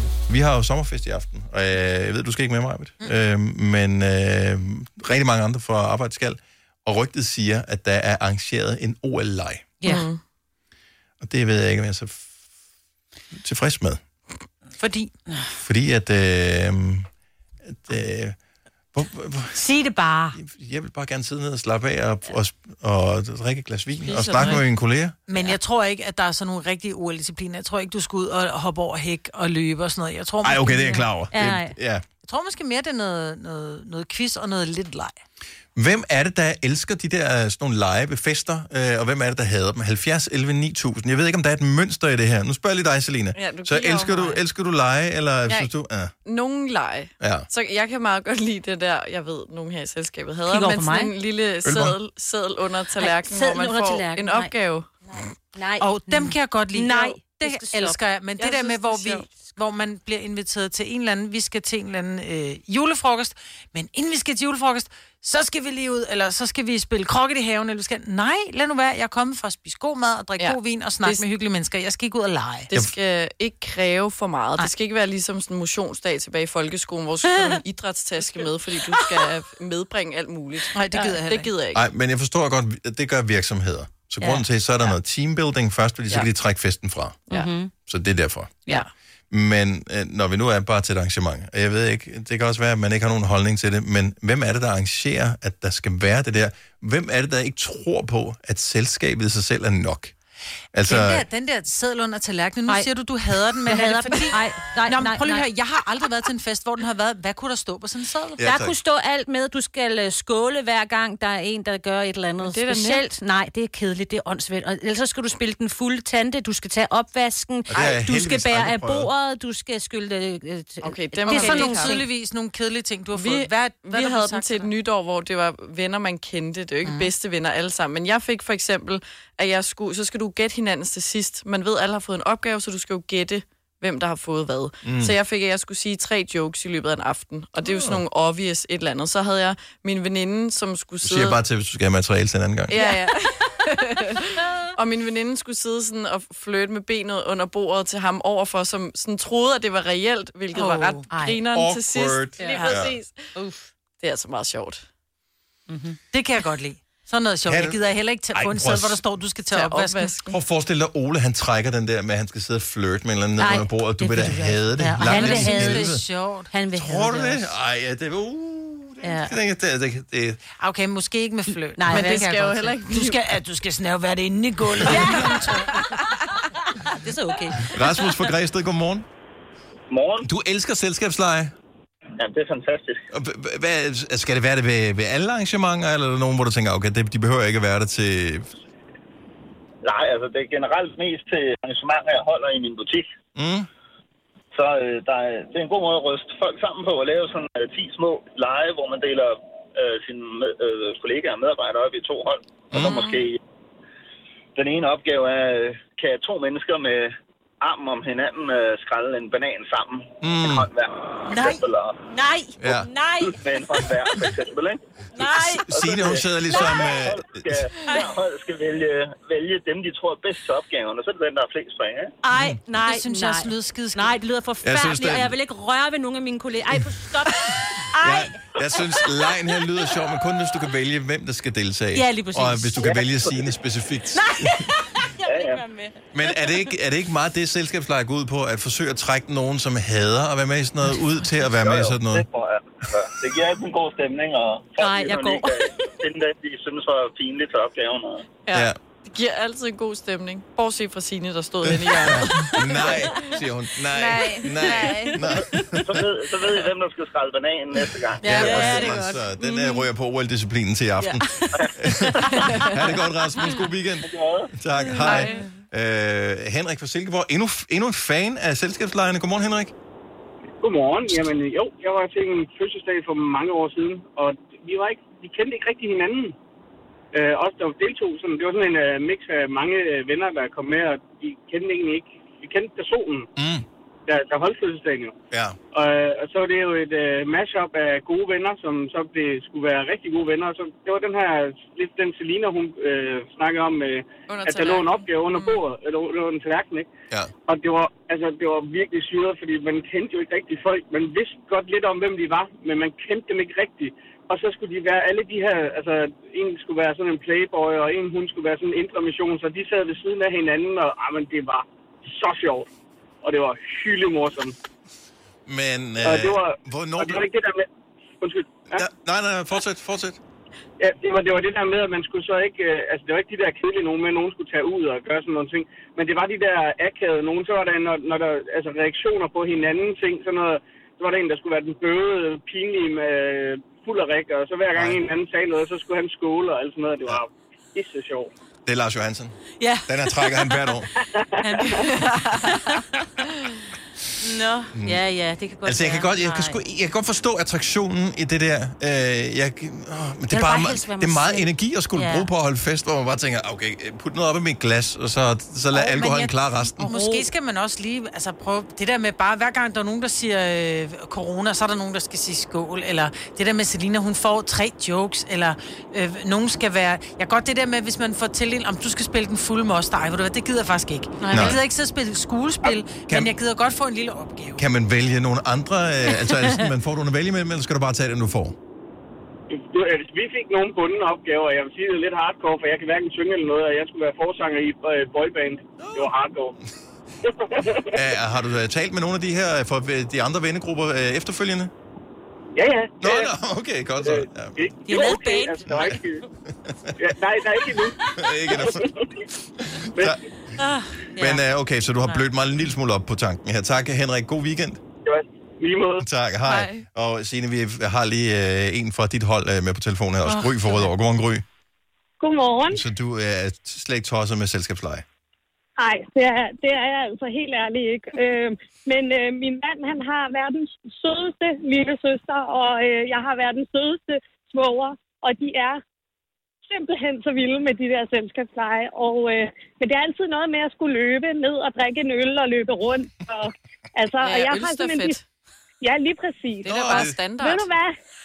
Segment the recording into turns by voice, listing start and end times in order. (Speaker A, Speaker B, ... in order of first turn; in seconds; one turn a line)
Speaker A: 0.3-9.8
Speaker B: 9.8-10.2
Speaker A: 11.2-12.3
Speaker A: 13.3-14.0
Speaker C: 14.8-15.2
Speaker A: 15.6-17.1
Speaker A: 17.7-18.4
Speaker A: 18.9-19.7
Speaker D: 19.5-20.4
Speaker A: 20.4-25.2
Speaker D: 24.1-24.6
Speaker C: 24.2-24.7
Speaker C: 25.3-31.1
Speaker A: 30.4-32.0
Speaker D: 30.9-31.8
Speaker C: 32.2-35.2
Speaker A: 35.8-46.1
Speaker B: 43.3-44.4
Speaker B: 46.2-54.9
Speaker A: 47.2-47.5
Speaker D: 50.4-51.1
Speaker A: 51.6-52.0
Speaker D: 52.9-54.5
Speaker D: 55.5-58.0
Speaker C: 55.8-72.7
Speaker B: 58.4-59.3
Speaker D: 59.1-59.5
Speaker B: 70.4-71.3
Speaker B: 72.7-81.8
Speaker D: 77.2-77.6
Speaker C: 80.7-81.5
Speaker A: 81.7-87.2
Speaker D: 84.2-84.5
Speaker D: 87.3-87.7
Speaker A: 87.8-88.6
Speaker A: 89.3-100.1
Speaker A: 100.7-101.2
Speaker C: 100.8-108.4
Speaker D: 103.5-105.5
Speaker A: 108.4-108.8
Speaker D: 108.4-122.1
Speaker B: 112.4-113.0
Speaker A: 117.7-119.1
Speaker B: 120.8-122.1
Speaker C: 121.2-124.7
Speaker B: 123.1-141.4
Speaker C: 126.8-127.1
Speaker A: 134.8-135.1
Speaker A: 137.6-138.0
Speaker A: 141.0-142.8
Speaker B: 142.7-153.3
Speaker D: 144.3-144.7
Speaker D: 150.5-151.1
Speaker C: 151.1-151.4
Speaker A: 151.5-153.0
Speaker D: 152.4-152.8
Speaker C: 152.5-152.8
Speaker D: 153.3-153.7
Speaker B: 154.0-154.8
Speaker D: 155.7-156.0
Speaker C: 156.1-160.1
Speaker A: 157.4-157.8
Speaker A: 158.3-159.0
Speaker B: 159.5-160.3
Speaker A: 160.3-166.0
Speaker D: 163.4-166.0
Speaker C: 164.8-167.5
Speaker D: 166.5-167.0
Speaker A: 166.7-170.4
Speaker C: 169.0-169.3
Speaker C: 170.6-175.8
Speaker D: 171.7-172.2
Speaker B: 171.9-173.3
Speaker D: 174.8-175.3
Speaker B: 175.0-176.1
Speaker D: 176.9-177.7
Speaker A: 177.6-179.1
Speaker E: 179.9-180.3
Speaker A: 180.2-181.5
Speaker E: 182.2-183.0
Speaker A: 183.1-188.5
Speaker E: 189.8-193.1
Speaker A: 193.3-193.7
Speaker E: 194.5-203.4
Speaker A: 202.7-203.0
Speaker B: 202.7-203.2
Speaker E: 204.5-211.9
Speaker A: 210.2-210.7
Speaker D: 211.3-214.3
Speaker A: 212.6-212.9
Speaker E: 213.4-222.1
Speaker D: 215.1-215.7
Speaker A: 215.2-217.6
Speaker D: 216.4-216.8
Speaker D: 217.8-218.1
Speaker D: 222.2-229.9
Speaker A: 222.3-222.6
Speaker C: 222.7-224.1
Speaker A: 224.6-225.4
Speaker A: 228.0-234.7
Speaker D: 231.9-232.9
Speaker E: 232.8-233.6
Speaker D: 234.1-236.7
Speaker E: 235.2-235.6
Speaker A: 236.1-242.2
Speaker E: 241.5-248.2
Speaker D: 244.8-245.9
Speaker B: 248.4-253.2
Speaker A: 248.5-248.8
Speaker A: 251.7-256.0
Speaker D: 252.3-253.4
Speaker B: 253.9-255.2
Speaker D: 254.1-255.7
Speaker E: 255.8-259.0
Speaker A: 258.2-269.7
Speaker D: 258.3-259.8
Speaker B: 259.5-259.8
Speaker D: 261.0-262.7
Speaker E: 264.0-264.5
Speaker D: 265.0-265.4
Speaker B: 265.0-265.3
Speaker F: 270.6-276.3
Speaker F: 277.1-283.2
Speaker A: 283.4-283.6
Speaker F: 284.1-285.1
Speaker A: 285.3-285.6
Speaker F: 285.7-296.9
Speaker B: 294.3-295.6
Speaker F: 297.5-311.6
Speaker F: 312.1-312.7
Speaker F: 313.2-314.5
Speaker A: 315.4-317.2
Speaker F: 316.0-317.6
Speaker F: 318.2-318.8
Speaker A: 318.7-320.2
Speaker F: 320.8-338.3
Speaker A: 334.7-335.0
Speaker A: 338.6-340.9
Speaker D: 339.6-340.7
Speaker F: 341.0-341.8
Speaker D: 341.4-343.1
Speaker B: 341.9-342.4
Speaker D: 344.2-346.6
Speaker A: 344.7-345.0
Speaker A: 345.6-356.9
Speaker D: 350.3-352.3
Speaker C: 355.7-374.6
Speaker D: 356.6-357.3
Speaker A: 371.3-371.6
Speaker A: 373.1-373.3
Speaker A: 374.6-378.5
Speaker C: 376.3-376.6
Speaker F: 379.5-386.5
Speaker A: 385.8-386.1
Speaker F: 387.2-387.9
Speaker A: 387.9-391.7
Speaker F: 392.6-393.3
Speaker A: 393.0-394.7
Speaker F: 394.0-396.2
Speaker D: 394.8-395.7
Speaker A: 395.6-397.1
Speaker F: 397.0-397.9
Speaker A: 398.1-398.9
Speaker F: 398.5-399.1
Speaker A: 399.6-400.2
Speaker D: 400.6-401.4
Speaker A: 401.1-404.8
Speaker F: 405.0-406.0
Speaker A: 406.0-411.4
Speaker B: 406.4-406.8
Speaker D: 410.2-410.9
Speaker G: 412.2-412.8
Speaker A: 412.7-415.0
Speaker G: 415.8-425.8
Speaker G: 426.6-435.2
Speaker B: 434.2-435.2
Speaker G: 435.8-438.0
Speaker B: 436.6-437.7
Speaker A: 436.6-437.2